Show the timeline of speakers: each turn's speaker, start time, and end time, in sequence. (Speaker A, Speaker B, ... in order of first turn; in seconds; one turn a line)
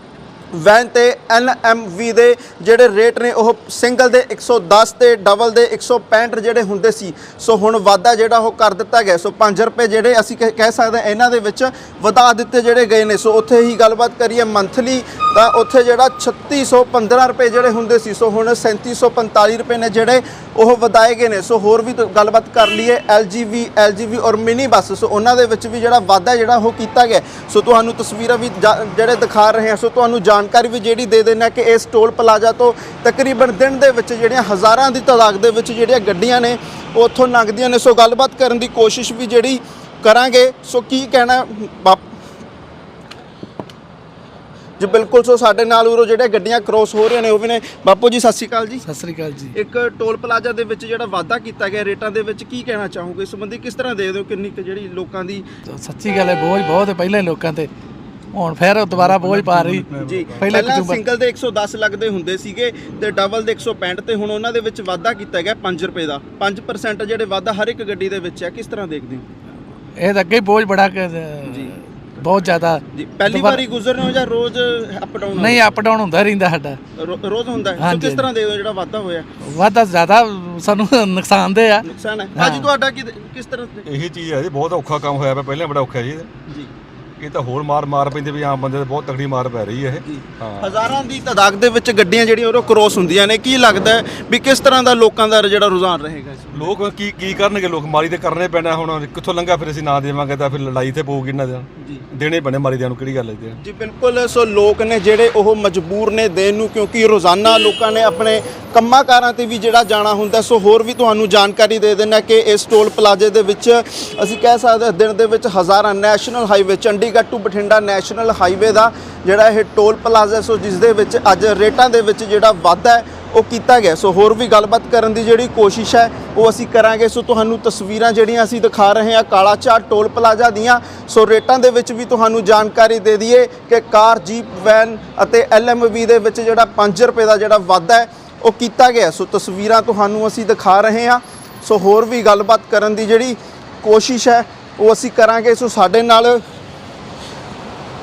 Speaker A: 0.5-42.0
Speaker A: 44.8-48.8
Speaker B: 48.8-49.5
Speaker A: 49.5-55.4
Speaker B: 55.7-57.7
Speaker B: 58.3-59.9
Speaker C: 58.9-60.7
Speaker A: 60.0-69.2
Speaker B: 60.4-61.0
Speaker B: 70.0-73.6
Speaker A: 71.5-71.7
Speaker A: 72.9-75.6
Speaker B: 75.3-76.8
Speaker A: 77.0-79.3
Speaker B: 77.8-78.2
Speaker B: 79.4-82.7
Speaker A: 81.8-83.8
Speaker C: 83.8-86.3
Speaker C: 87.2-90.8
Speaker A: 90.0-96.7
Speaker C: 96.5-103.6
Speaker A: 101.8-102.0
Speaker A: 103.6-146.4